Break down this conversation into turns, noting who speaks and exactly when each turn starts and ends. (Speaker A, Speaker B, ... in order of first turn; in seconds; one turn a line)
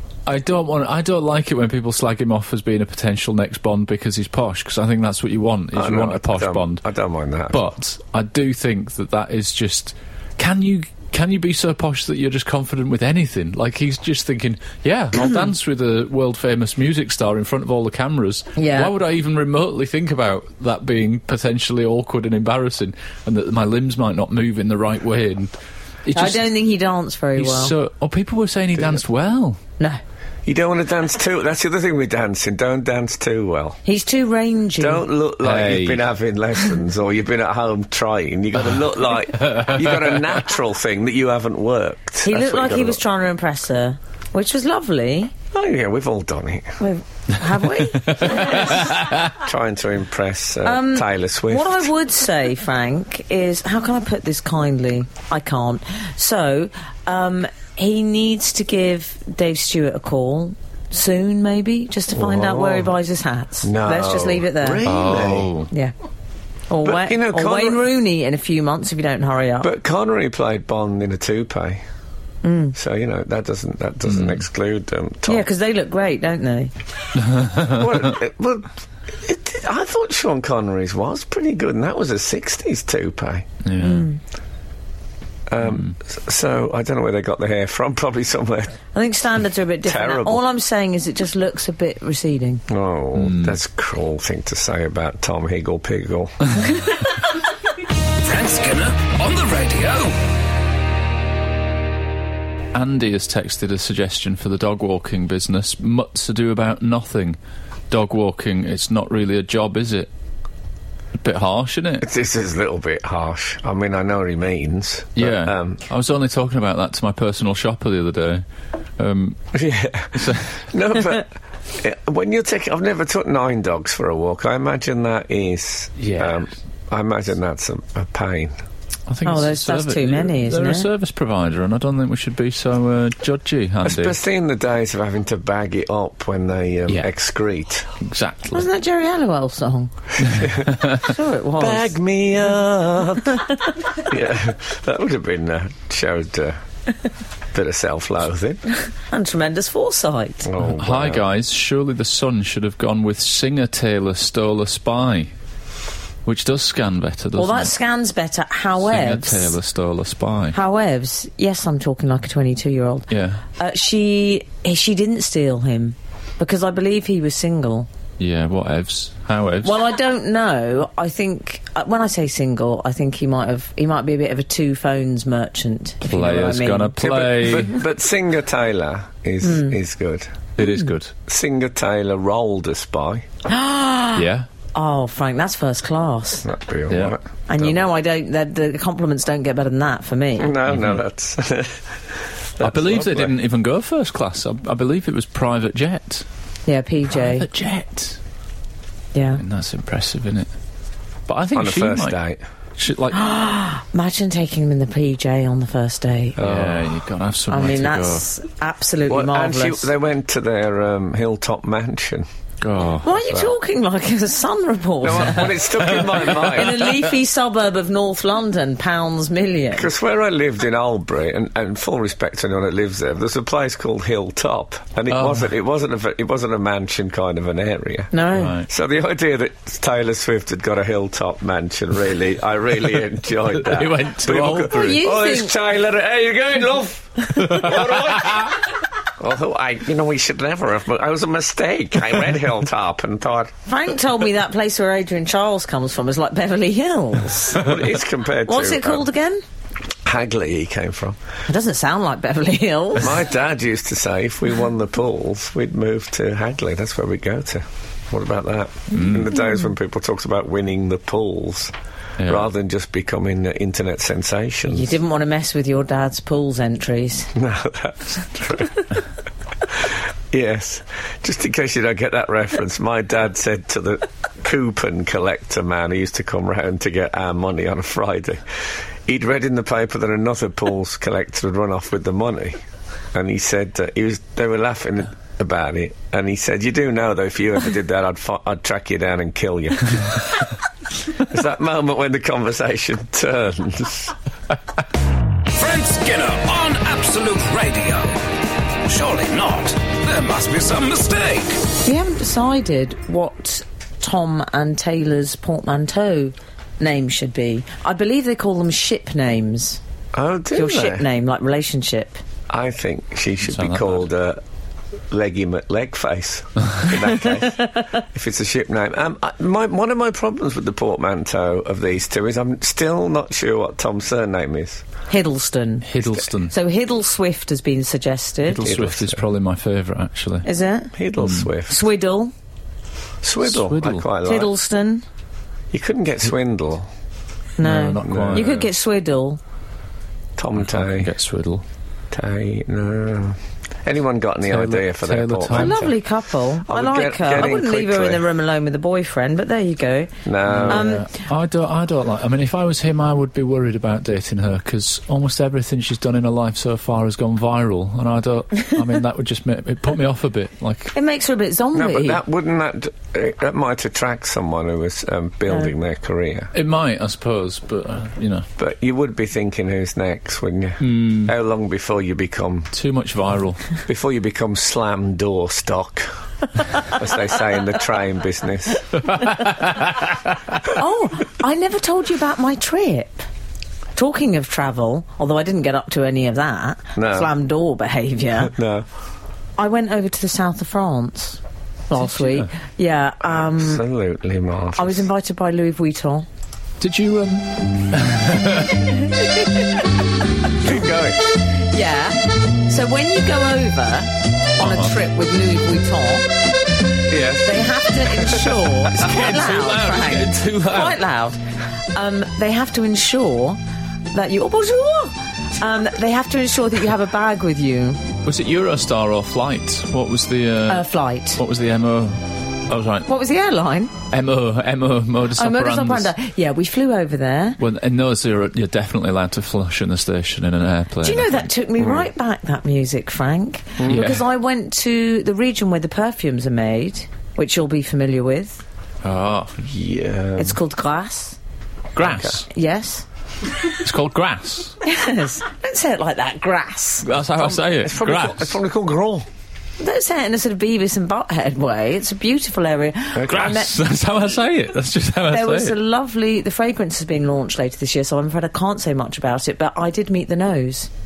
Speaker A: 0.2-6.8
Speaker B: 5.7-7.6
Speaker A: 7.5-25.5
Speaker C: 18.6-18.9
Speaker A: 26.0-26.5
Speaker C: 26.1-27.7
Speaker A: 27.4-29.6
Speaker B: 30.4-33.8
Speaker C: 33.8-35.0
Speaker B: 34.8-43.0
Speaker A: 35.4-36.0
Speaker A: 39.4-40.2
Speaker C: 42.2-45.3
Speaker B: 45.5-46.8
Speaker C: 46.8-48.9
Speaker A: 48.0-49.3
Speaker B: 48.5-51.9
Speaker C: 50.6-64.8
Speaker B: 62.1-62.9
Speaker B: 63.6-65.5
Speaker A: 64.8-65.7
Speaker C: 66.7-69.7
Speaker B: 66.8-67.9
Speaker B: 69.6-71.8
Speaker C: 72.4-72.7
Speaker B: 72.7-75.5
Speaker A: 74.1-74.4
Speaker C: 75.3-76.7
Speaker A: 77.2-77.8
Speaker B: 77.6-83.5
Speaker A: 83.6-84.1
Speaker C: 83.8-84.2
Speaker B: 85.5-88.8
Speaker A: 85.6-85.9
Speaker C: 88.9-92.6
Speaker B: 89.8-90.4
Speaker B: 92.7-96.6
Speaker A: 93.1-93.6
Speaker D: 98.2-100.2
Speaker A: 102.7-107.4
Speaker A: 107.9-110.1
Speaker A: 111.2-112.1
Speaker B: 112.0-115.8
Speaker A: 115.2-118.4
Speaker A: 119.0-119.4
Speaker B: 119.5-128.6
Speaker A: 120.1-120.6
Speaker A: 126.0-126.4
Speaker A: 129.1-134.2
Speaker C: 129.2-130.9
Speaker B: 133.8-137.9
Speaker A: 138.0-138.7
Speaker C: 138.5-139.9
Speaker B: 140.2-140.7
Speaker A: 140.2-141.0
Speaker C: 140.8-141.9
Speaker B: 141.6-146.6
Speaker C: 143.3-143.7
Speaker B: 147.5-148.6
Speaker C: 149.1-150.5
Speaker B: 150.4-151.2
Speaker A: 150.6-155.3
Speaker A: 156.2-157.7
Speaker C: 157.3-159.6
Speaker A: 158.8-160.6
Speaker C: 160.5-167.9
Speaker A: 163.1-163.4
Speaker A: 168.2-169.7
Speaker C: 169.6-177.0
Speaker A: 176.0-177.8
Speaker B: 177.0-180.5
Speaker C: 179.4-179.8
Speaker A: 180.6-181.1
Speaker C: 180.6-180.9
Speaker B: 181.2-183.2
Speaker C: 183.5-186.4
Speaker A: 184.1-184.5
Speaker B: 186.4-187.8
Speaker A: 186.9-187.2
Speaker C: 187.5-190.5
Speaker B: 190.4-192.0
Speaker A: 190.7-191.0
Speaker B: 192.6-193.3
Speaker A: 192.6-196.2
Speaker C: 196.7-197.4
Speaker A: 197.1-198.2
Speaker C: 199.1-199.4
Speaker A: 199.4-200.5
Speaker A: 201.3-202.2
Speaker B: 201.5-202.4
Speaker A: 202.8-203.2
Speaker C: 203.1-206.4
Speaker B: 206.4-206.9
Speaker A: 206.4-208.2
Speaker C: 207.5-209.9
Speaker B: 209.1-212.2
Speaker A: 212.6-213.1
Speaker C: 213.0-219.9
Speaker B: 213.2-213.5
Speaker B: 215.0-216.9
Speaker A: 215.4-217.0
Speaker B: 219.7-238.6
Speaker A: 225.1-225.5
Speaker C: 228.1-228.6
Speaker A: 228.3-228.7
Speaker A: 233.5-235.0
Speaker C: 234.7-235.5
Speaker A: 237.4-238.5
Speaker B: 239.2-243.5
Speaker C: 243.7-247.7
Speaker B: 247.5-249.1
Speaker C: 248.4-249.4
Speaker B: 250.0-251.2
Speaker C: 251.5-253.2
Speaker B: 253.0-264.9
Speaker A: 258.9-259.3
Speaker A: 262.2-262.5
Speaker C: 264.7-267.3
Speaker B: 267.3-268.9
Speaker B: 269.7-278.4
Speaker B: 279.1-282.6
Speaker B: 283.1-290.4
Speaker B: 291.1-294.1
Speaker D: 295.5-298.2
Speaker D: 298.8-301.6
Speaker C: 301.8-309.8
Speaker B: 310.1-311.1
Speaker C: 310.5-312.2
Speaker B: 312.5-314.4
Speaker A: 313.4-314.0
Speaker B: 315.1-324.8
Speaker C: 325.1-325.9
Speaker A: 325.8-326.5
Speaker C: 326.5-328.7
Speaker A: 328.5-330.4
Speaker B: 328.6-329.2
Speaker C: 330.4-330.9
Speaker B: 330.9-331.8
Speaker A: 331.2-331.5
Speaker C: 331.7-332.3
Speaker B: 333.2-334.5
Speaker A: 333.4-334.0
Speaker C: 334.2-335.0
Speaker B: 335.7-336.9
Speaker C: 337.6-339.4
Speaker A: 337.6-338.6
Speaker B: 338.0-338.7
Speaker B: 340.4-341.1
Speaker A: 340.6-341.6
Speaker B: 342.1-345.9
Speaker A: 344.4-345.9
Speaker C: 345.5-350.1
Speaker B: 346.6-348.2
Speaker B: 350.2-350.9
Speaker A: 350.5-360.9
Speaker C: 350.6-351.1
Speaker C: 360.9-362.2
Speaker B: 361.7-366.5
Speaker A: 366.5-368.5
Speaker B: 368.6-372.7
Speaker A: 370.8-371.3
Speaker A: 372.7-373.8
Speaker B: 373.9-376.1
Speaker B: 376.7-379.0
Speaker A: 379.1-380.1
Speaker C: 380.7-383.2
Speaker C: 383.9-388.5
Speaker B: 386.9-387.3
Speaker B: 388.4-388.9
Speaker C: 389.6-393.8
Speaker A: 392.0-392.5
Speaker B: 393.2-395.1
Speaker C: 394.8-396.2
Speaker A: 396.8-399.1
Speaker B: 400.6-401.2
Speaker C: 401.6-406.3
Speaker A: 404.6-404.9
Speaker B: 407.1-407.6
Speaker C: 407.4-411.4
Speaker B: 408.2-408.5
Speaker A: 408.9-411.0
Speaker C: 411.9-413.6
Speaker C: 414.1-418.0
Speaker A: 418.2-423.1
Speaker C: 420.7-421.4
Speaker C: 423.1-423.9
Speaker A: 424.1-426.1
Speaker C: 425.4-427.6
Speaker A: 427.6-431.5
Speaker C: 431.0-438.6
Speaker B: 431.8-432.1
Speaker B: 433.8-434.1
Speaker A: 433.9-434.2
Speaker A: 439.0-439.6
Speaker B: 439.6-440.6
Speaker C: 440.4-441.4
Speaker A: 441.9-442.5
Speaker B: 442.0-442.4
Speaker C: 442.5-443.0
Speaker A: 443.6-444.8
Speaker C: 444.8-447.1
Speaker A: 447.0-448.6
Speaker B: 447.4-449.2
Speaker C: 449.8-453.8
Speaker B: 453.1-453.5
Speaker A: 453.3-455.8
Speaker C: 455.3-460.9